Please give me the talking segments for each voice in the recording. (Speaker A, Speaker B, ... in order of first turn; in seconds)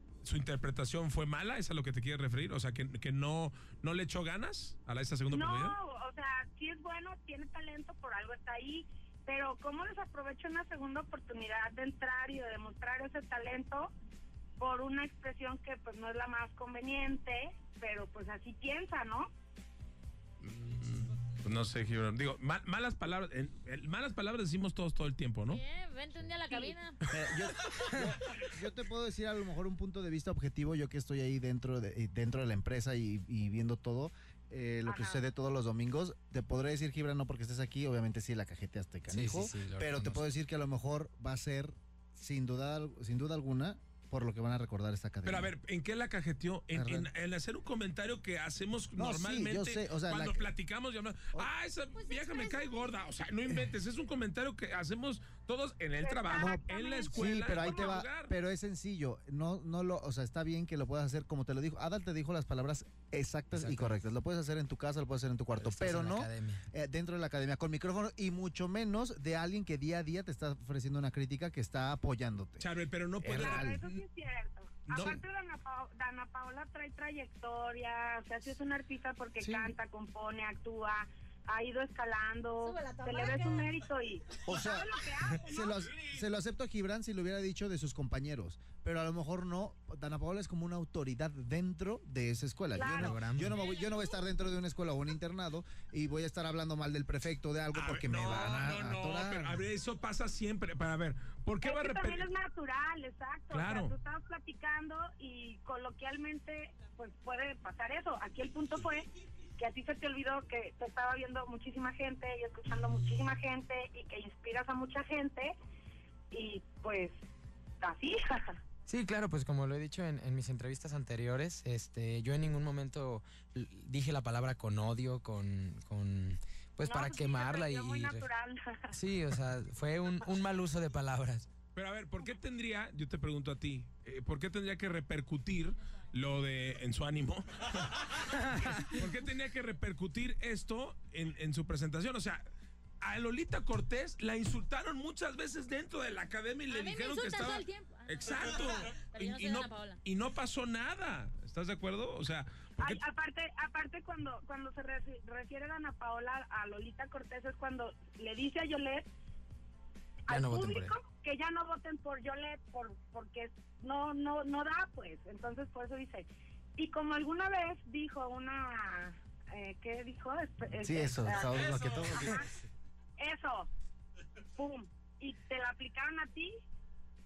Speaker A: 0.2-5.8, 20.4-25.6, 45.2-58.3, 72.6-74.0, 74.9-75.2, 97.7-102.3, 103.5-103.9, 131.7-142.4, 143.0-153.0
Speaker B: 5.3-13.9, 14.6-19.3, 34.8-35.2, 56.0-57.9, 73.2-85.8, 92.7-93.2, 101.6-115.5, 116.3-117.2, 117.8-118.6, 126.8-128.9, 152.8-159.1, 160.3-172.5, 173.2-173.7, 174.6-176.5
Speaker C: 25.5-27.0, 51.9-52.9, 82.6-83.7, 146.7-150.0
Speaker D: 27.1-45.5, 46.7-47.1, 49.0-50.4, 56.3-72.7, 73.2-73.8, 74.9-75.2, 79.4-79.7, 84.5-99.6, 170.8-172.5
Speaker E: 39.1-40.3, 63.5-64.0, 65.5-66.7, 92.9-93.6, 118.9-128.3, 128.9-131.5, 138.4-138.8, 160.3-160.9